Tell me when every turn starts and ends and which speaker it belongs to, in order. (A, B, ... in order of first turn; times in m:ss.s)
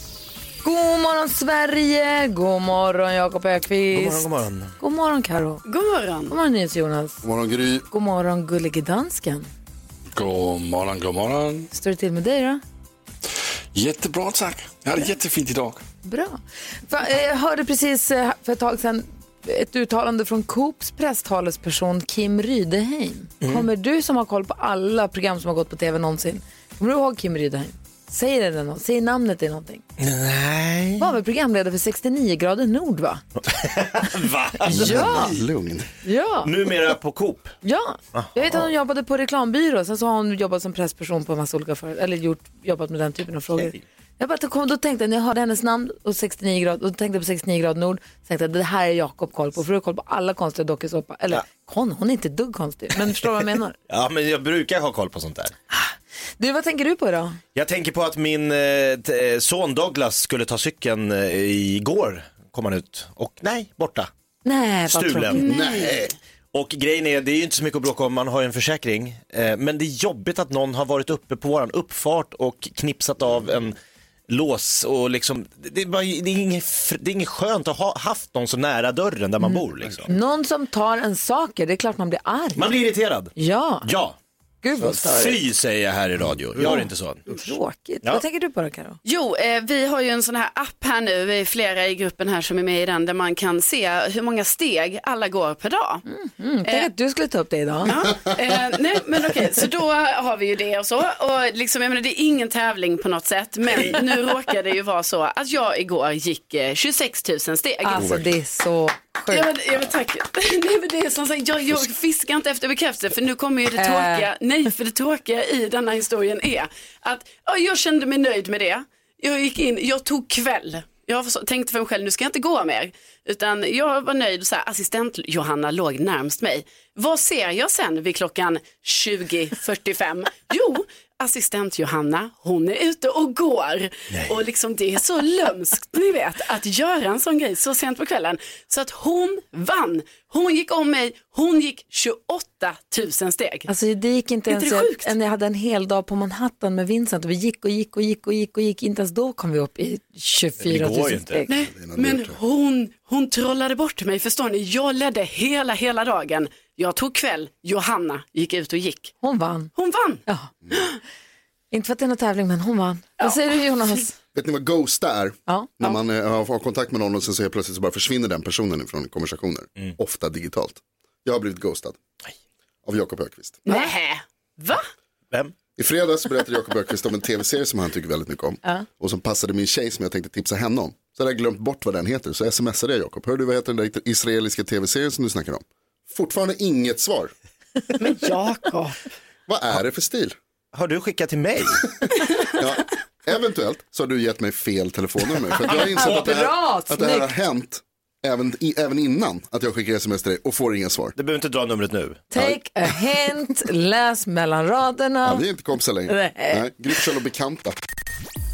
0:00.6-0:04.3 A
0:03.9-0:04.7 B
0:04.8-0:05.6 A
0:05.6-0:06.3 C
0:06.3-0:07.2 A
0:07.2-0:07.8 D
0:07.9-0:09.5 A
0:10.1-0:11.7 E
0:11.7-0:12.6 A
0:13.7-0:15.8 E
0:16.0-0:29.8 A
0:23.4-0:23.7 B
0:30.0-0:31.1 B
0:31.0-0:33.2 A
0:33.4-0:35.4 B
0:34.7-0:35.4 A
0:34.7-0:35.9 D
0:36.0-0:36.5 A
0:36.4-0:37.5 B
0:37.6-0:53.8 A
0:38.1-0:38.7 B
0:43.5-0:43.8 B
0:53.9-0:55.5 B
0:55.7-0:57.4 A
0:57.5-1:04.1 B
1:04.4-1:05.4 A
1:04.9-1:05.4 B
1:05.4-1:06.1 C
1:05.4-1:06.1 D
1:06.5-1:13.8 B
1:14.3-1:20.1 B
1:19.4-1:22.7 A
1:22.6-1:23.3 B
1:23.4-1:23.9 A
1:23.8-1:24.2 B
1:24.6-1:25.4 A
1:24.8-1:27.2 B
1:26.3-1:26.8 D
1:26.6-1:29.0 A
1:29.0-1:36.0 C
1:36.1-1:37.9 A
1:37.8-1:48.1 C
1:47.8-1:49.5 A
1:48.0-1:48.3 D
1:49.3-2:23.7 C
1:53.8-1:54.3 A
2:14.1-2:14.4 B
2:23.7-2:31.5 A
2:24.5-2:25.1 C
2:30.6-2:31.5 B
2:31.5-2:39.1 C
2:31.6-2:32.4 D
2:39.2-2:39.7 A
2:39.7-2:40.2 C
2:41.7-2:44.2 A
2:44.3-2:52.0 D
2:52.8-2:53.6 D
2:53.6-2:54.8 C
2:55.8-3:07.3 D
3:08.0-3:09.0 C
3:09.5-3:10.3 D
3:10.7-3:11.8 B
3:12.5-3:21.1 D
3:15.6-3:17.3 A
3:21.2-3:22.3 B
3:22.3-3:25.4 A
3:25.2-3:27.8 D
3:26.1-3:26.6 A